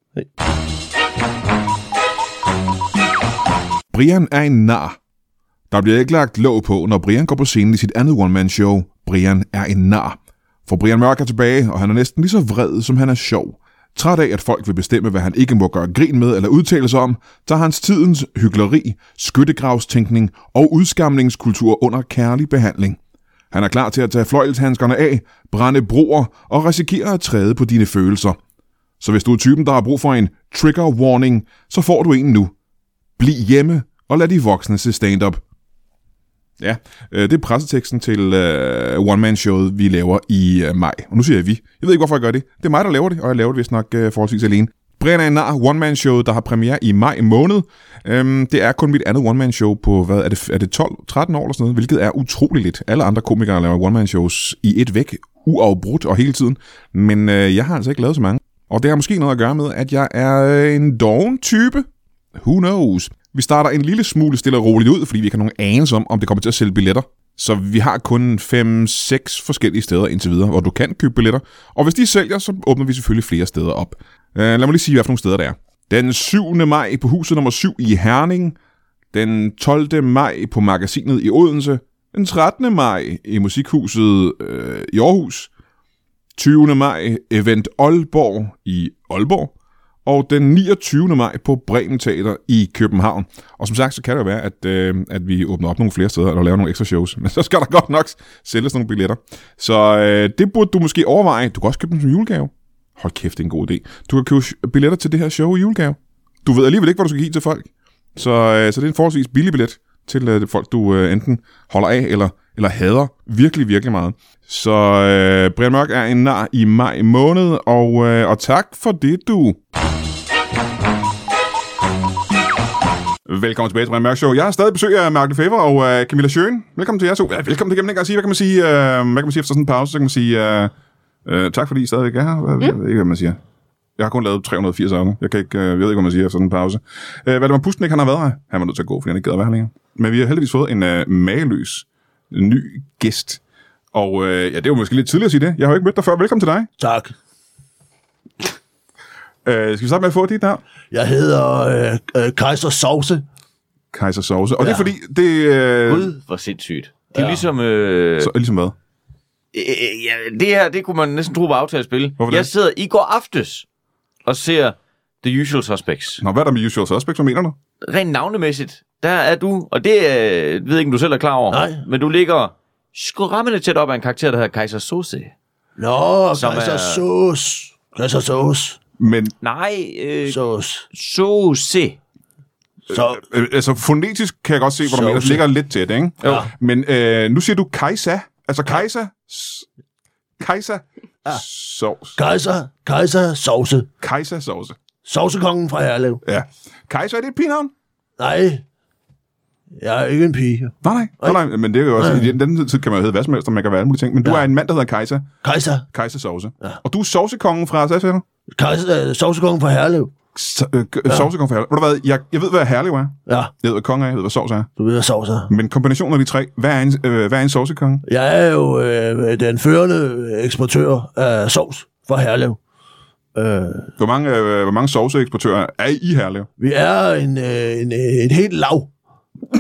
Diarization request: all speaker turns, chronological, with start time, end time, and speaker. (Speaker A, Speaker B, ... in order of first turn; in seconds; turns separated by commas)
Speaker A: 3.9-5.0, Speaker A: 5.7-23.0, Speaker A: 23.5-28.4, Speaker A: 29.0-32.5, Speaker A: 33.2-35.4, Speaker A: 36.6-78.6, Speaker A: 79.1-85.5, Speaker A: 86.3-89.5, Speaker A: 90.0-119.6, Speaker A: 123.3-130.7, Speaker A: 131.2-133.4, Speaker A: 134.0-143.4, Speaker A: 143.9-146.7, Speaker B: 146.8-147.1, Speaker A: 149.4-150.6, Speaker B: 150.9-153.2, Speaker A: 153.9-156.1, Speaker B: 154.6-154.9, Speaker C: 155.9-158.3, Speaker B: 157.1-157.4, Speaker A: 158.2-158.8, Speaker C: 159.5-163.7, Speaker A: 162.2-162.5, Speaker C: 164.2-166.2, Speaker A: 166.2-167.6, Speaker C: 167.8-175.3, Speaker B: 171.5-171.8, Speaker B: 175.8-178.8, Speaker C: 176.3-177.0, Speaker A: 179.0-179.3, Speaker C: 179.4-180.4, Speaker B: 180.2-180.9, Speaker C: 180.9-182.0, Speaker B: 182.9-183.2, Speaker A: 182.9-189.7, Speaker B: 184.8-185.4, Speaker B: 186.2-186.5, Speaker A: 190.4-192.2, Speaker B: 192.2-193.9, Speaker A: 194.0-194.8, Speaker B: 195.1-196.2, Speaker A: 196.2-197.7, Speaker B: 198.2-198.7, Speaker B: 199.8-201.4, Speaker A: 200.8-205.3, Speaker B: 202.0-202.3, Speaker B: 205.4-205.9, Speaker A: 205.9-208.2, Speaker B: 208.5-210.1, Speaker A: 210.3-214.7, Speaker B: 213.3-213.5, Speaker B: 214.8-215.5, Speaker A: 215.5-218.0, Speaker B: 218.1-222.6, Speaker B: 223.3-223.9, Speaker A: 224.0-226.5, Speaker B: 226.6-228.9